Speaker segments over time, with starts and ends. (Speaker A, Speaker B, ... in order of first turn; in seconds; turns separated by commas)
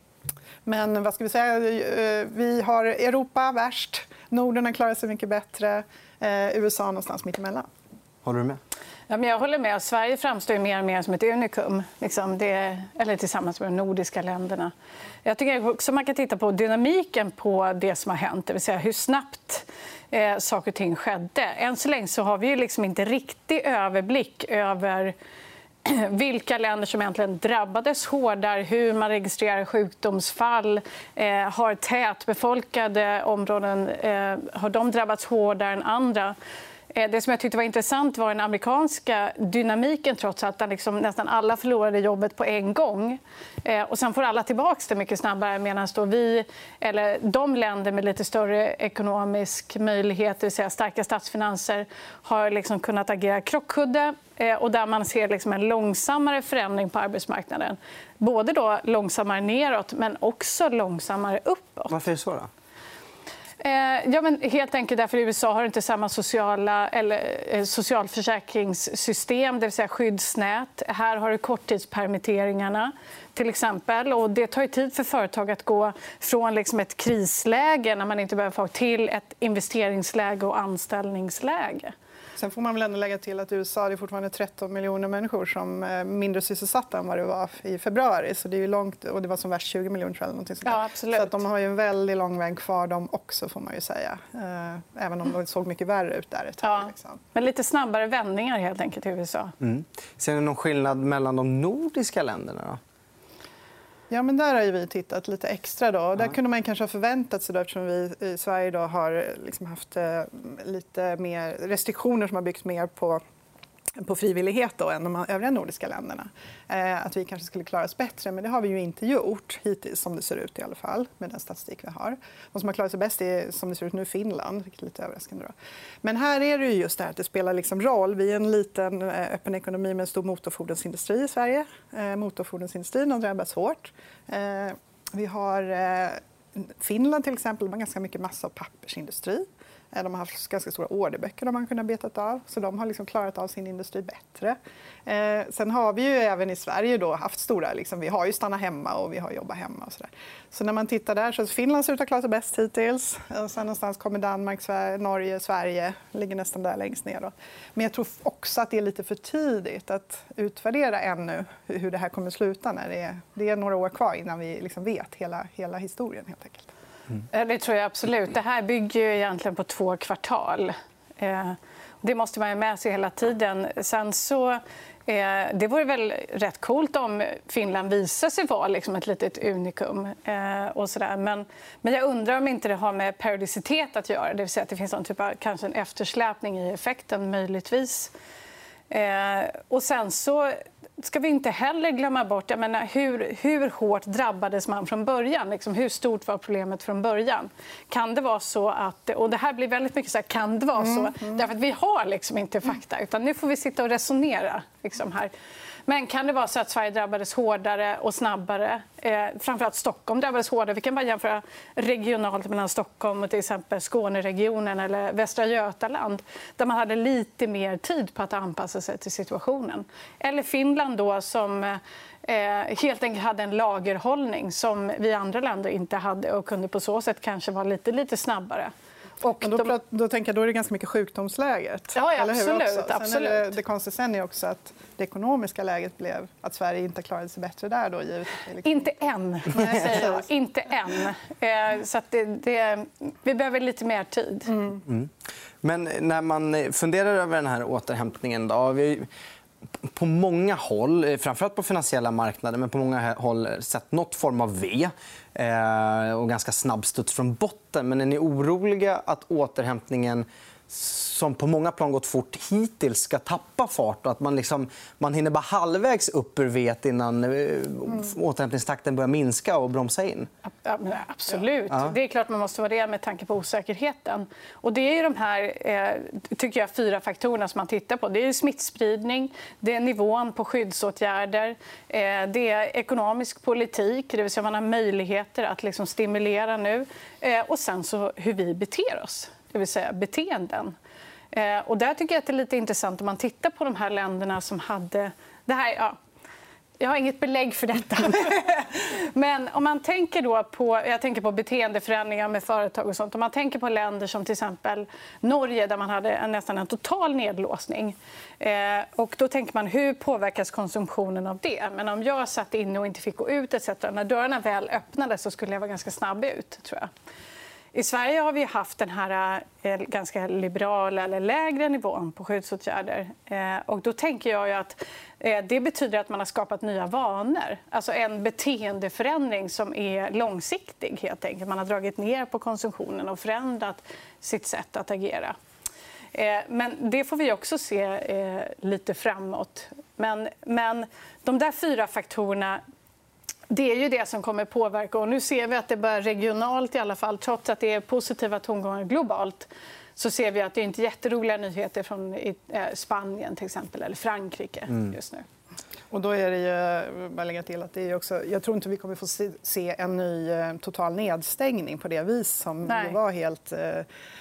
Speaker A: 0.7-7.7, Speaker B: 8.2-8.6, Speaker C: 9.1-14.7, Speaker C: 15.2-25.1, Speaker C: 25.9-36.4, Speaker C: 36.9-61.9, Speaker B: 61.9-62.5, Speaker C: 63.6-81.9, Speaker A: 82.4-97.2, Speaker C: 90.6-91.4, Speaker C: 96.6-99.5, Speaker B: 99.6-102.8, Speaker A: 104.1-113.2, Speaker A: 114.0-166.7, Speaker C: 167.3-188.1, Speaker C: 188.9-205.3, Speaker A: 200.8-201.4, Speaker C: 205.9-229.7, Speaker A: 229.4-238.9, Speaker C: 231.9-233.5, Speaker C: 238.6-244.6, Speaker A: 239.5-240.3, Speaker A: 244.5-244.8, Speaker B: 244.9-245.1, Speaker B: 245.6-249.1, Speaker B: 249.8-270.3, Speaker C: 270.6-290.8, Speaker C: 291.3-296.0, Speaker C: 296.8-316.9, Speaker C: 317.7-335.4, Speaker C: 336.1-342.6, Speaker C: 343.5-355.3, Speaker A: 355.9-363.9, Speaker C: 362.7-363.0